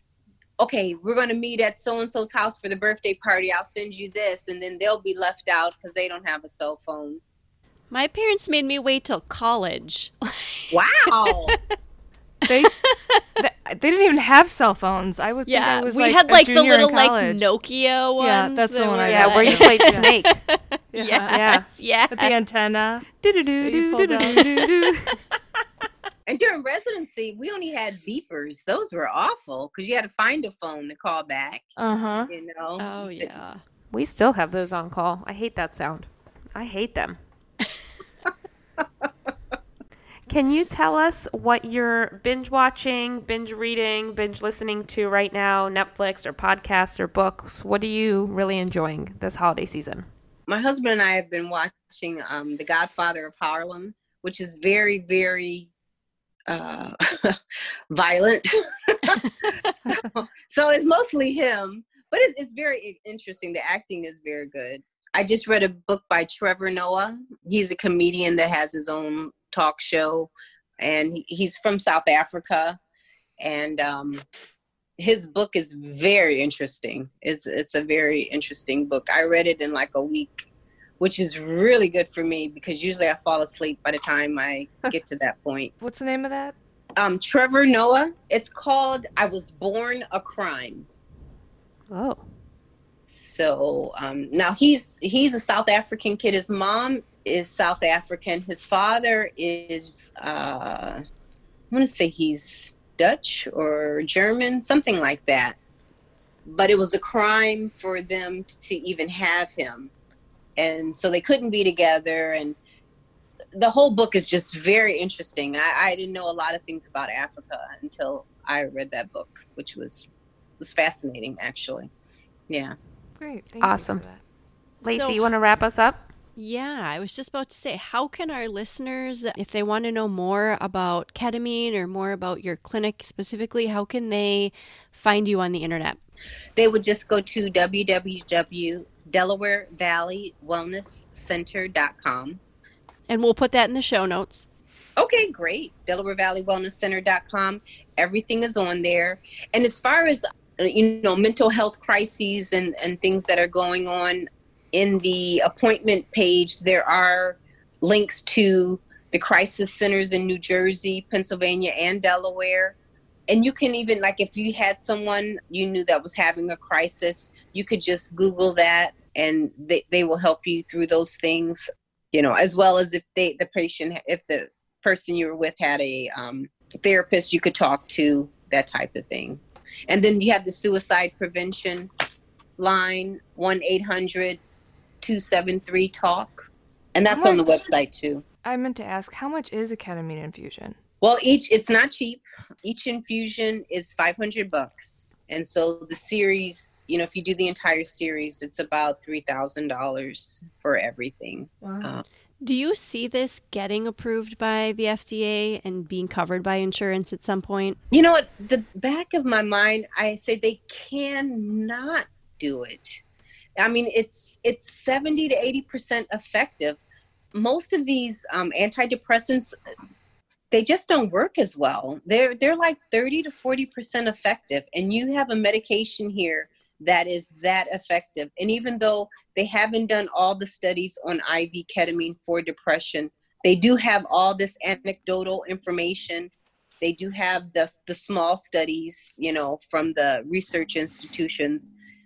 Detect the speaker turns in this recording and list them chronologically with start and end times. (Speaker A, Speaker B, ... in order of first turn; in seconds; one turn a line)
Speaker A: 0.6-7.2
Speaker B: 7.9-11.6
Speaker A: 10.7-11.6
Speaker C: 12.5-12.8
Speaker B: 12.5-13.2
Speaker C: 13.4-17.5
Speaker B: 15.4-22.4
Speaker C: 18.2-20.1
Speaker D: 19.0-20.4
Speaker C: 20.9-23.1
Speaker D: 21.3-21.7
Speaker D: 23.2-25.2
Speaker C: 23.6-24.6
Speaker A: 26.3-31.7
Speaker C: 31.8-32.3
Speaker A: 32.3-33.3
Speaker B: 32.8-33.6
Speaker D: 33.9-37.2
Speaker D: 40.3-50.1
Speaker A: 50.5-55.7
Speaker A: 56.5-57.4
Speaker A: 57.9-72.8
Speaker A: 73.4-74.2
Speaker A: 75.0-80.4
Speaker A: 81.0-85.7
Speaker C: 85.8-86.5
Speaker A: 87.0-90.9
Speaker D: 91.9-92.2
Speaker A: 93.1-101.0
Speaker A: 101.7-105.6
Speaker A: 106.4-109.9
Speaker A: 110.6-112.6
Speaker A: 113.5-120.1
Speaker A: 120.6-121.9
Speaker A: 122.5-122.8
Speaker C: 123.2-124.2
Speaker D: 123.6-124.0
Speaker D: 124.8-126.0
Speaker B: 124.8-125.2
Speaker B: 126.3-136.0
Speaker A: 136.6-142.4
Speaker B: 143.1-144.4
Speaker A: 145.0-162.8
Speaker A: 163.3-181.9
Speaker A: 182.6-184.4
Speaker A: 185.0-188.2
Speaker C: 187.1-187.5
Speaker C: 188.4-190.8
Speaker A: 191.0-202.0
Speaker B: 202.4-207.8
Speaker A: 207.9-213.0
Speaker A: 213.6-216.8
Speaker A: 217.3-219.5
Speaker A: 220.5-241.7